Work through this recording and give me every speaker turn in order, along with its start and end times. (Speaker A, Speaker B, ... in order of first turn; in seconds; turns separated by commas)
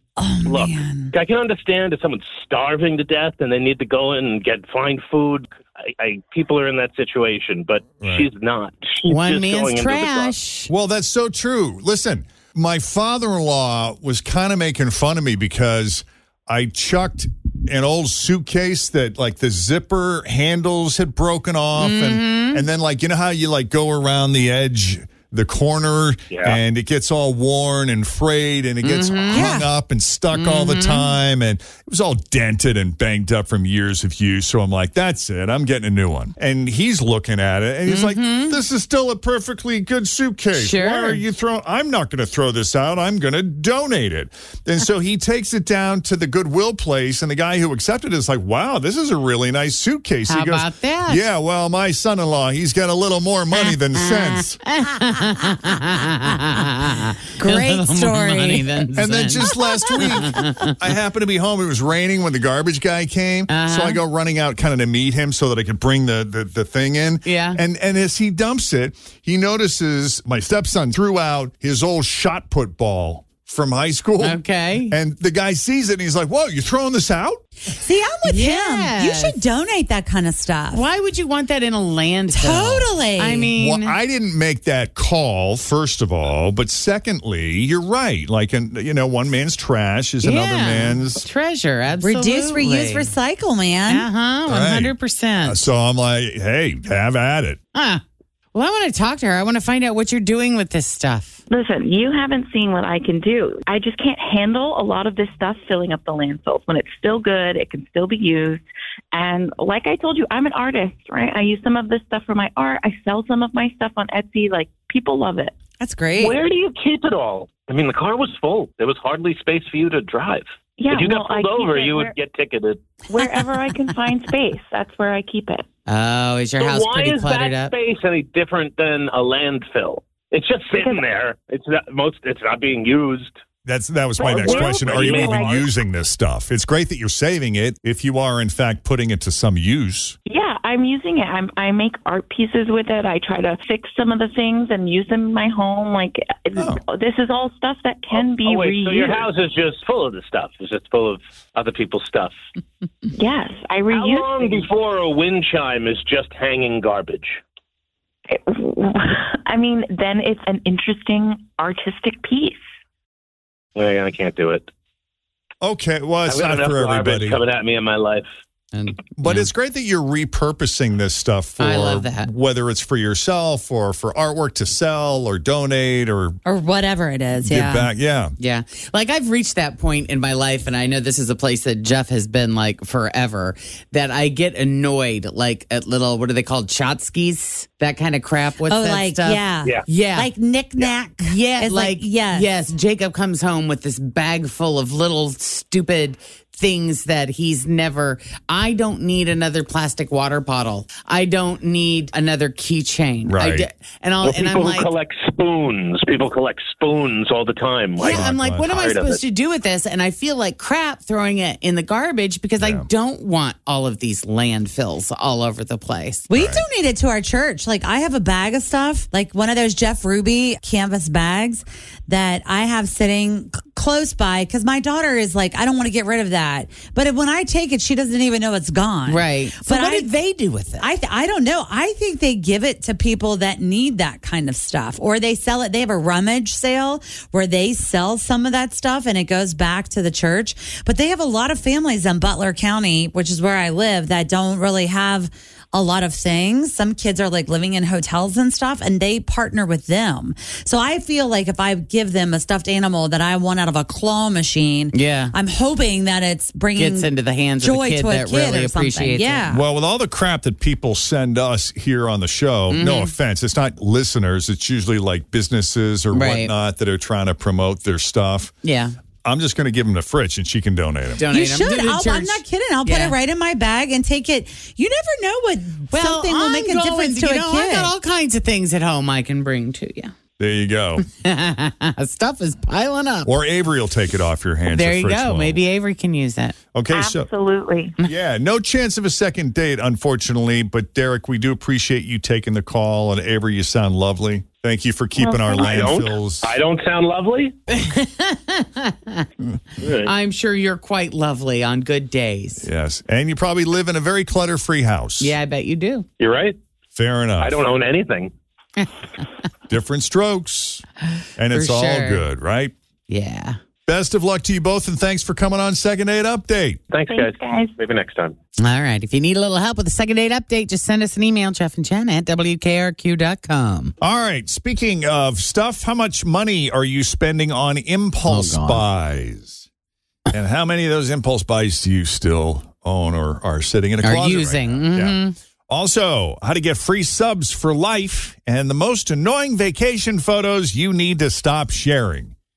Speaker A: 0.2-1.1, Speaker B: 0.5-10.3, Speaker C: 8.0-8.3, Speaker D: 9.1-10.7, Speaker C: 10.7-54.6, Speaker D: 21.8-22.6, Speaker B: 26.3-26.6, Speaker D: 28.8-29.6, Speaker A: 29.3-29.7, Speaker D: 30.3-31.1, Speaker D: 37.9-38.6, Speaker D: 40.5-41.2, Speaker D: 50.3-51.2, Speaker D: 54.0-60.7, Speaker A: 57.4-58.9, Speaker C: 59.0-77.4, Speaker D: 63.5-64.0, Speaker D: 67.2-67.6, Speaker D: 74.2-75.0, Speaker A: 77.7-80.8, Speaker D: 78.2-79.4, Speaker D: 80.7-84.0, Speaker A: 82.3-83.5, Speaker C: 83.5-91.2, Speaker D: 90.2-93.1, Speaker A: 92.0-94.1, Speaker D: 93.9-95.7, Speaker C: 94.5-97.6, Speaker D: 97.7-98.0, Speaker D: 98.5-101.4, Speaker E: 101.5-115.5, Speaker A: 115.8-116.4, Speaker B: 116.2-122.8, Speaker E: 120.8-122.2, Speaker E: 123.1-125.7, Speaker D: 125.9-127.7, Speaker B: 126.6-133.3, Speaker E: 130.7-131.0, Speaker C: 133.7-140.2, Speaker E: 134.2-135.6, Speaker B: 134.3-135.7, Speaker E: 140.3-149.3, Speaker C: 146.6-146.8, Speaker B: 148.2-152.3, Speaker E: 153.1-154.7, Speaker B: 153.9-157.4, Speaker E: 158.3-162.6, Speaker B: 163.8-164.7, Speaker C: 165.6-167.4, Speaker B: 166.3-168.3, Speaker D: 168.7-169.5, Speaker C: 169.2-176.4, Speaker D: 171.6-172.3, Speaker A: 176.4-177.9, Speaker C: 177.4-178.3, Speaker D: 178.4-190.3, Speaker A: 188.7-192.5, Speaker D: 191.2-204.9, Speaker C: 203.3-203.7, Speaker B: 204.2-209.2, Speaker D: 208.0-216.3, Speaker C: 208.1-208.7, Speaker C: 212.6-212.9, Speaker A: 216.3-230.1, Speaker C: 216.3-216.7, Speaker D: 229.1-230.9, Speaker A: 230.8-257.1, Speaker D: 254.9-255.3, Speaker D: 256.8-259.5, Speaker A: 257.6-259.6, Speaker C: 259.5-268.5, Speaker D: 262.7-263.1, Speaker D: 266.1-266.5, Speaker D: 268.6-269.0, Speaker C: 269.2-271.3, Speaker D: 271.2-273.2, Speaker A: 271.3-277.9, Speaker D: 275.9-280.1, Speaker C: 280.4-281.1, Speaker D: 281.0-283.3, Speaker C: 283.3-285.6, Speaker D: 284.6-286.6, Speaker C: 286.7-287.3, Speaker E: 286.9-287.9, Speaker C: 288.1-296.5, Speaker E: 295.2-295.6, Speaker B: 295.5-297.6, Speaker D: 297.7-299.3, Speaker B: 299.8-300.1, Speaker D: 300.0-302.7, Speaker C: 302.6-305.4, Speaker D: 305.2-306.1, Speaker B: 306.2-306.6, Speaker C: 306.9-307.6, Speaker B: 307.4-308.3, Speaker C: 309.7-310.9, Speaker C: 311.4-312.7, Speaker D: 311.5-312.2, Speaker D: 313.1-313.6, Speaker C: 313.9-316.8, Speaker B: 316.9-318.4, Speaker E: 317.1-317.7, Speaker D: 318.6-323.9, Speaker C: 324.0-329.6, Speaker D: 328.3-328.9, Speaker C: 330.3-342.3, Speaker D: 334.0-335.4